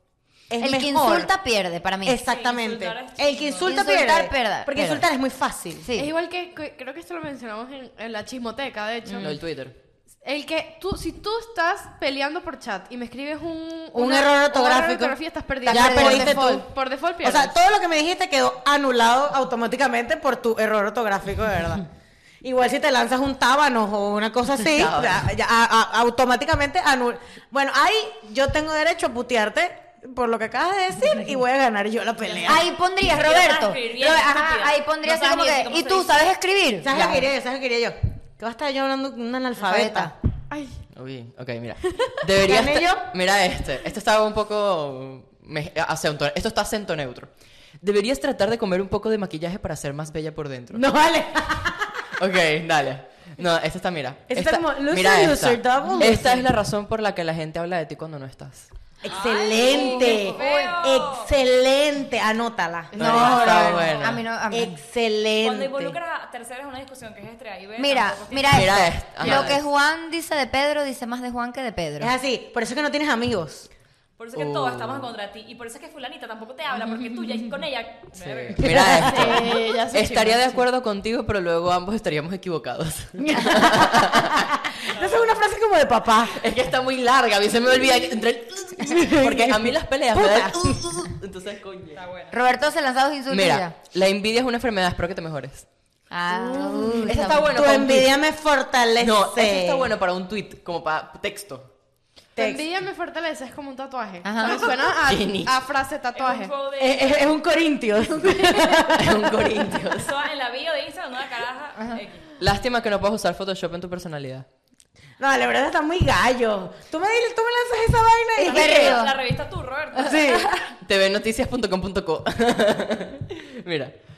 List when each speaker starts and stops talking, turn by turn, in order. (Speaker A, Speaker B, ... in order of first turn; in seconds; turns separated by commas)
Speaker A: 0.5-1.3, Speaker B: 0.6-2.2, Speaker A: 2.0-5.9, Speaker C: 2.2-3.9, Speaker B: 3.6-5.1, Speaker B: 5.8-6.1, Speaker D: 6.0-9.4, Speaker E: 9.1-9.7, Speaker D: 10.2-17.5, Speaker A: 13.9-16.7, Speaker B: 15.6-16.5, Speaker A: 17.2-21.8, Speaker A: 22.4-32.7, Speaker E: 24.7-25.3, Speaker C: 32.3-36.3, Speaker B: 32.4-37.2, Speaker A: 36.8-40.1, Speaker B: 39.6-40.1, Speaker D: 40.5-40.8, Speaker E: 40.9-50.9, Speaker A: 42.4-43.1, Speaker A: 50.7-52.0, Speaker E: 52.2-58.7, Speaker A: 54.3-56.5, Speaker A: 59.0-66.0, Speaker C: 59.0-61.3, Speaker B: 59.6-60.8, Speaker D: 62.9-63.6, Speaker E: 63.0-64.2, Speaker B: 63.0-64.8, Speaker C: 65.4-68.8, Speaker B: 67.8-72.1, Speaker E: 68.5-69.6, Speaker A: 72.0-73.7, Speaker C: 74.2-78.7, Speaker E: 74.3-75.1, Speaker E: 78.1-84.6, Speaker A: 78.6-79.3, Speaker D: 78.9-80.6, Speaker A: 83.2-86.4, Speaker C: 84.9-85.3, Speaker E: 86.3-92.0, Speaker A: 88.8-91.0, Speaker C: 91.9-92.4, Speaker B: 92.3-93.7, Speaker E: 93.3-95.7, Speaker B: 96.1-97.6, Speaker A: 96.3-99.9, Speaker E: 97.0-98.2, Speaker E: 99.0-101.7, Speaker A: 102.4-102.6, Speaker D: 102.4-106.5, Speaker B: 104.2-104.7, Speaker E: 105.0-105.5, Speaker C: 106.1-107.4, Speaker A: 106.8-109.6, Speaker E: 108.9-110.2, Speaker C: 109.9-112.3, Speaker E: 112.4-114.5, Speaker A: 115.2-119.0, Speaker B: 118.4-119.2, Speaker C: 118.4-120.4, Speaker A: 120.0-120.5, Speaker B: 120.3-120.6, Speaker E: 120.8-123.9